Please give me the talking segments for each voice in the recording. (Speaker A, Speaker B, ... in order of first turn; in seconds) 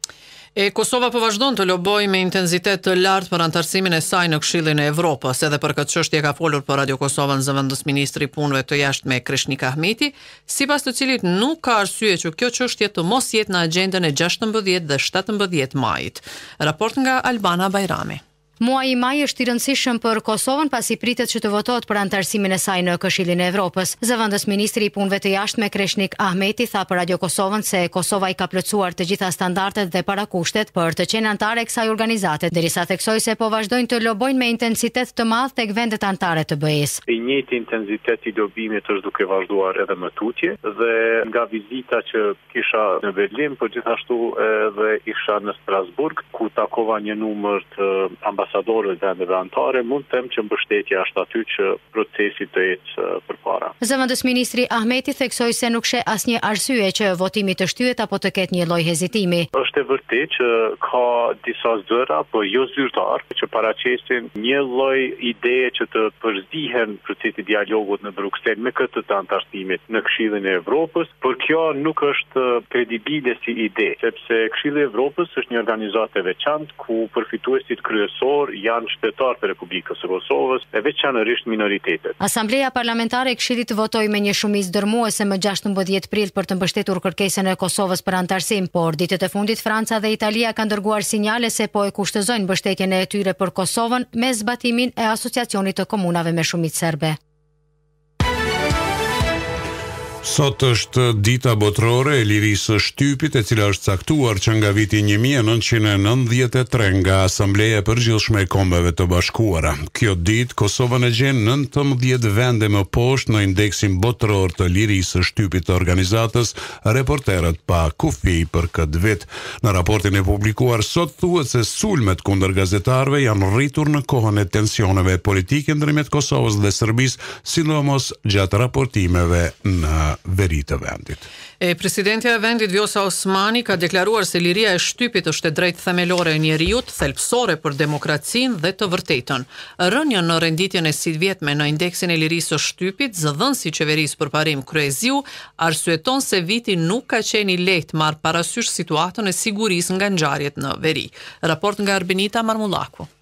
Speaker A: 0.6-18.2, 131.6-153.1
Speaker B: 18.6-37.0, 53.8-59.5, 82.2-97.2
Speaker C: 37.1-53.7, 59.5-82.2
Speaker D: 100.2-131.3